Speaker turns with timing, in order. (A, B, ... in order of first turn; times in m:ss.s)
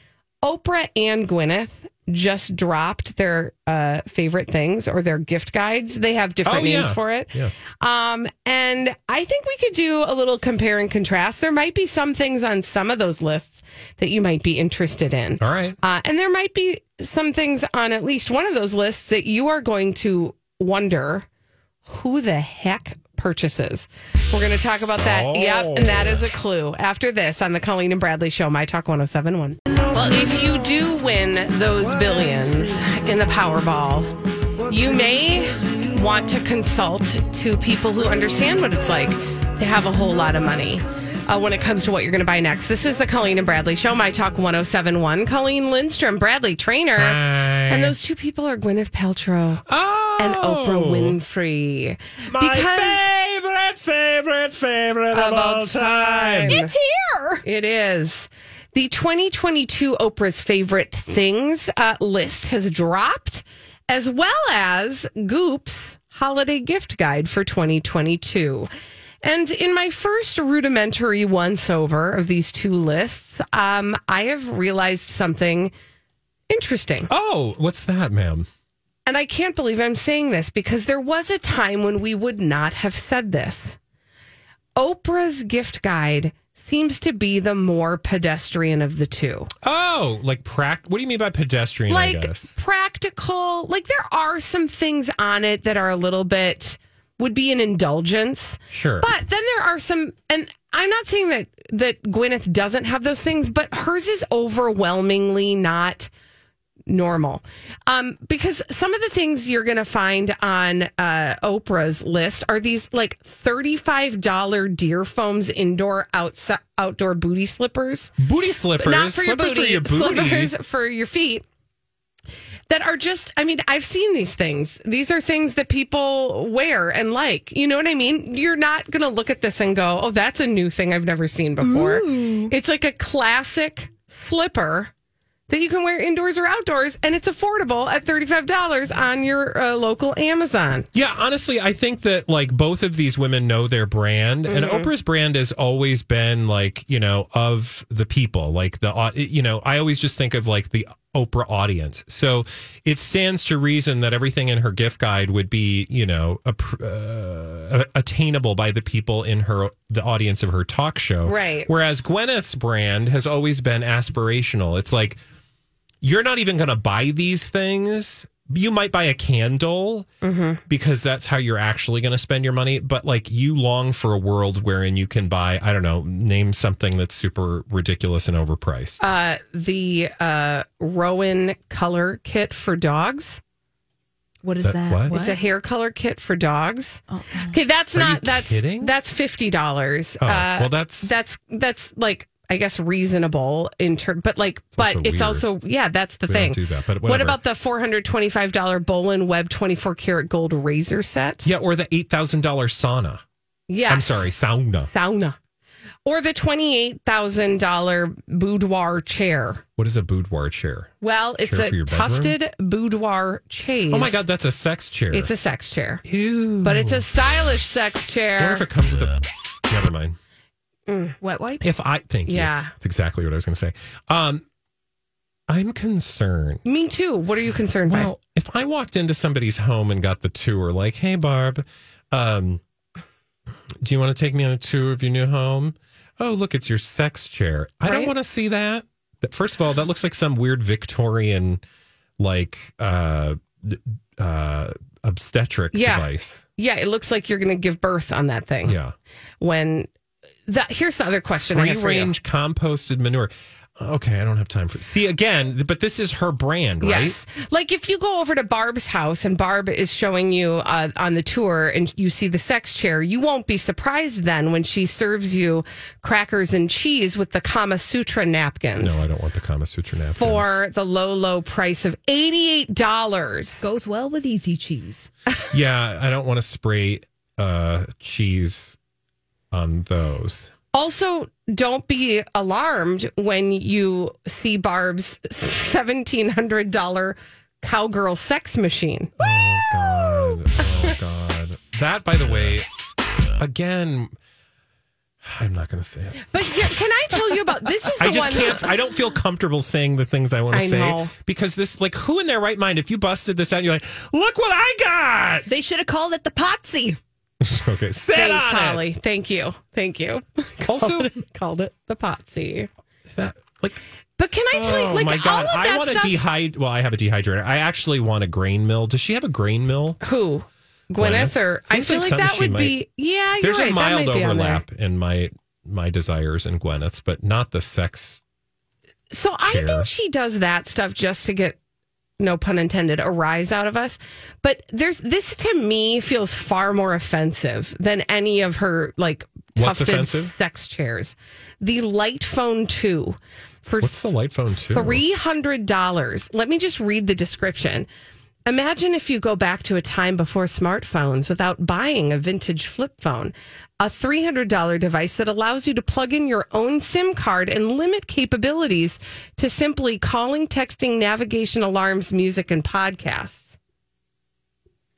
0:00.4-0:21.3 A
0:06.4-0:07.5 B
0:15.4-0:15.8 B
0:21.9-0:34.1 A
0:25.0-0:26.3 B
0:34.7-0:49.6 A
0:47.0-0:48.0 B
0:49.7-0:51.2 B
0:50.2-0:53.0 A
0:52.3-0:56.6 B
0:55.1-0:56.7 A
0:56.5-0:57.4 C
0:57.4-1:08.7 A
1:09.2-1:15.7 A
1:16.5-1:17.1 A
1:17.1-1:18.5 B
1:19.1-1:23.8 A
1:24.8-1:29.5 A
1:29.6-1:32.5 B
1:31.9-1:46.1 A
1:38.7-1:39.1 B
1:46.9-1:58.1 A
1:58.2-2:00.5 B
1:58.8-2:01.4 A
2:02.7-2:14.9 A
2:11.7-2:12.5 C
2:15.5-2:20.9 A
2:20.9-2:45.2 B
2:24.5-2:24.9 A
2:41.2-2:41.7 A
2:46.0-2:50.1 B
2:50.2-2:50.6 A
2:50.7-2:59.0 B
2:59.0-3:03.4 A
3:04.4-3:05.4 C
3:04.6-3:05.2 B
3:05.1-3:21.5 A
3:07.1-3:07.6 C
3:07.9-3:08.9 B
3:10.2-3:11.2 B
3:14.8-3:15.5 B
3:16.3-3:17.4 B
3:21.4-3:23.2 B
3:23.7-3:24.3 A
3:23.9-3:24.9 B
3:24.8-3:25.4 A
3:26.0-3:29.6 A
3:29.8-3:32.4 B
3:31.0-3:34.2 A
3:33.9-3:35.3 B
3:35.1-3:36.0 A
3:36.0-3:37.0 B
3:36.6-3:38.7 A
3:38.4-3:40.2 B
3:40.9-3:41.2 A
3:41.2-3:41.7 C
3:41.6-3:44.4 B
3:42.3-3:42.7 A
3:45.5-3:46.6 B
3:46.6-3:48.1 A
3:47.9-3:52.6 B
3:53.8-4:01.6 B
4:02.2-4:06.4 B
4:05.7-4:08.8 A
4:08.6-4:09.0 B
4:09.4-4:09.9 A
4:10.5-4:12.1 A
4:11.5-4:17.2 B
4:16.8-4:29.0 A
4:28.8-4:30.6 B
4:30.2-4:33.6 A
4:33.6-4:35.1 C
4:35.5-4:38.8 B
4:39.5-4:40.5 B
4:40.7-4:49.1 A
4:49.2-4:52.7 B
4:53.4-4:54.1 B
4:55.2-4:56.8 B
4:56.3-4:58.7 A
4:58.0-5:05.5 B
5:00.5-5:01.1 A
5:05.5-5:07.0 C
5:07.4-5:08.8 B
5:08.1-5:12.7 A
5:10.6-5:11.1 B
5:13.1-5:13.8 B
5:14.2-5:16.2 A
5:14.5-5:20.0 B
5:20.0-5:24.6 A
5:21.0-5:22.8 B
5:23.4-5:28.2 B
5:29.1-5:31.6 A
5:29.4-5:29.9 B
5:32.2-5:44.0 A
5:39.6-5:40.3 B
5:43.8-5:45.0 B
5:44.6-5:47.9 A
5:48.5-6:03.6 A